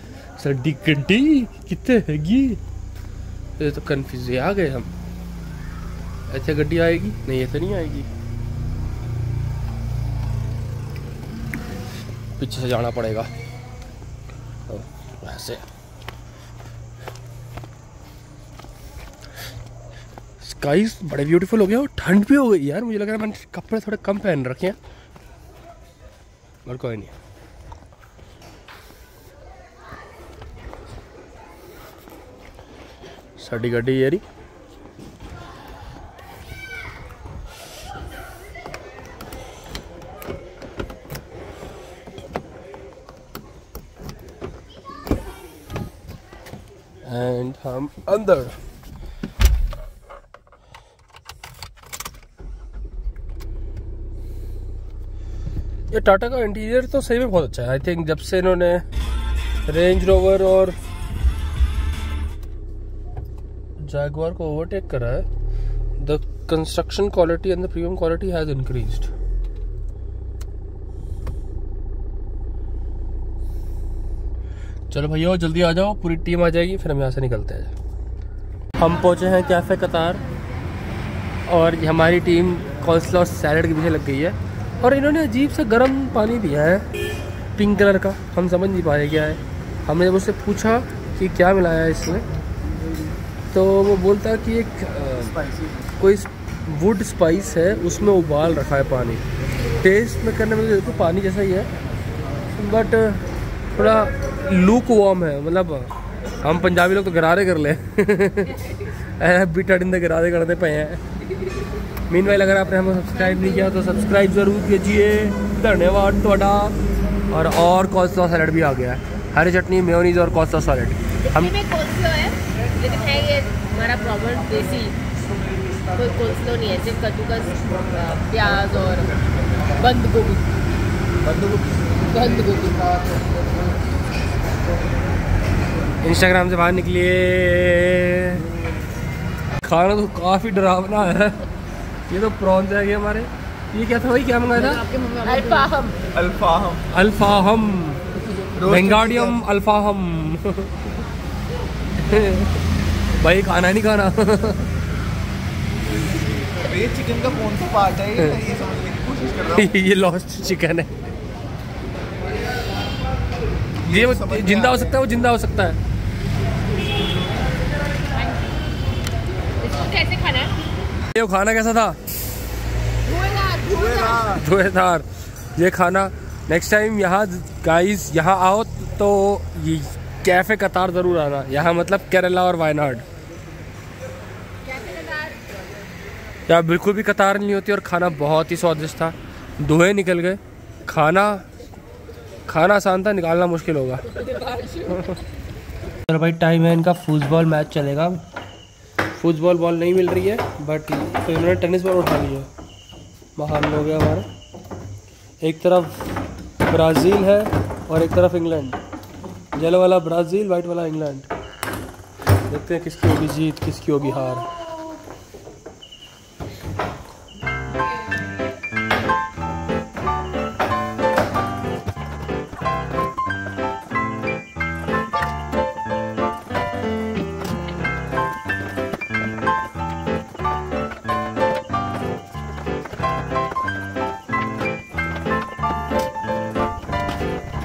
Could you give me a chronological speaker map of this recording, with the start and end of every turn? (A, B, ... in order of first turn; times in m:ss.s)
0:00.4-0:02.6 A
0:03.6-0:04.9 A
0:06.3-0:08.1 A
0:12.4-0:13.3 A
0:14.7-0:15.6 A
0:20.4-0:24.8 A
0:26.6-0:27.1 A
0:33.4-0:34.2 A
0:47.0-0:48.6 A
0:55.9-0:58.8 A
0:59.7-1:00.8 A
1:03.8-1:05.3 A
1:06.0-1:09.1 A
1:14.9-1:17.7 A
1:18.8-1:20.2 A
1:21.5-1:26.9 A
1:27.6-1:32.2 A
1:33.5-1:39.2 A
1:39.8-1:41.7 A
1:42.5-1:51.0 A
1:52.1-1:56.8 A
1:57.3-2:01.6 A
2:01.3-2:05.0 B
2:05.8-2:10.4 B
2:11.2-2:12.0 C
2:12.1-2:13.2 B
2:16.0-2:18.5 A
2:19.6-2:21.5 A
2:22.1-2:24.8 A
2:24.6-2:26.0 B
2:26.1-2:26.8 C
2:26.9-2:30.8 A
2:28.6-2:29.4 C
2:31.9-2:32.6 A
2:33.1-2:34.7 A
2:36.2-2:39.7 C
2:38.2-2:38.4 A
2:39.5-2:41.0 A
2:43.8-2:45.8 A
2:43.9-2:44.8 C
2:49.6-2:50.5 B
2:51.0-2:52.0 A
2:53.0-2:54.3 B
2:53.8-2:54.3 C
2:54.2-3:03.0 A
3:04.7-3:05.3 B
3:06.5-3:11.5 A
3:12.4-3:15.2 A
3:16.1-3:18.2 A
3:19.1-3:22.5 A
3:23.4-3:24.3 A
3:25.4-3:28.8 A
3:29.5-3:31.3 A
3:32.4-3:34.5 A